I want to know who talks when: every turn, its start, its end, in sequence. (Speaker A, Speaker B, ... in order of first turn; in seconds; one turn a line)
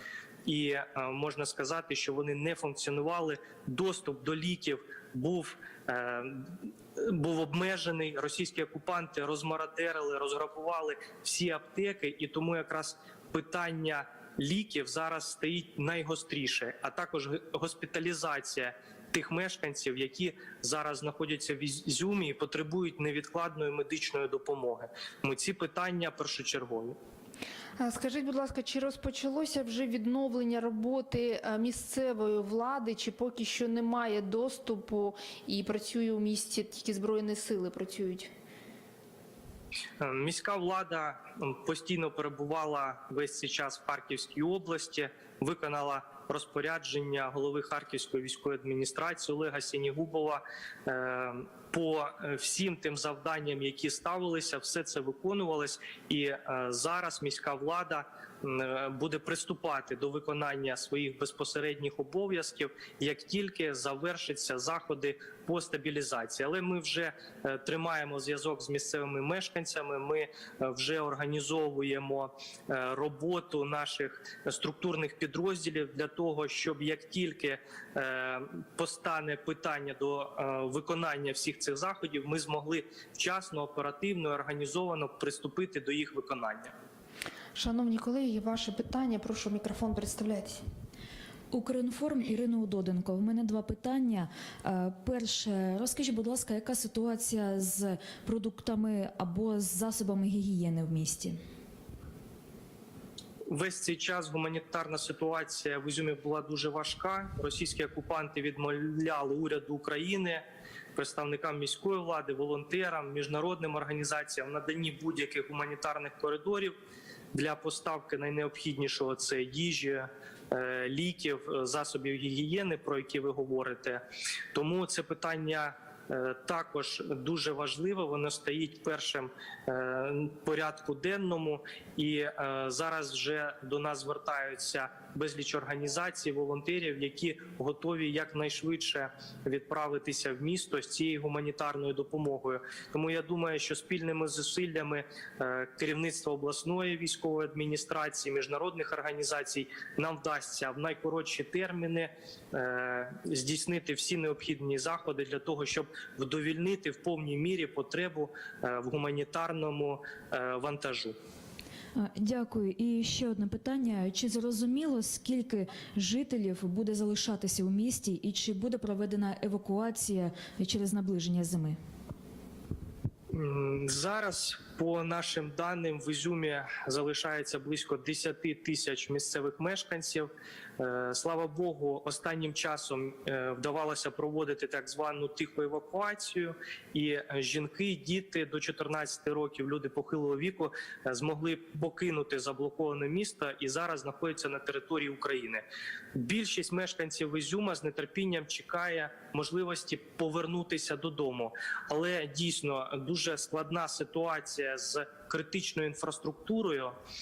Speaker A: 0.5-27.0
Speaker B: 27.8-38.3
Speaker A: 40.0-86.7
Speaker B: 87.6-90.6
Speaker C: 91.5-101.4
Speaker A: 103.5-110.4
Speaker A: 111.0-116.8
Speaker A: 117.3-124.0
Speaker A: 124.5-161.2
Speaker C: 161.9-171.8
Speaker A: 173.3-207.0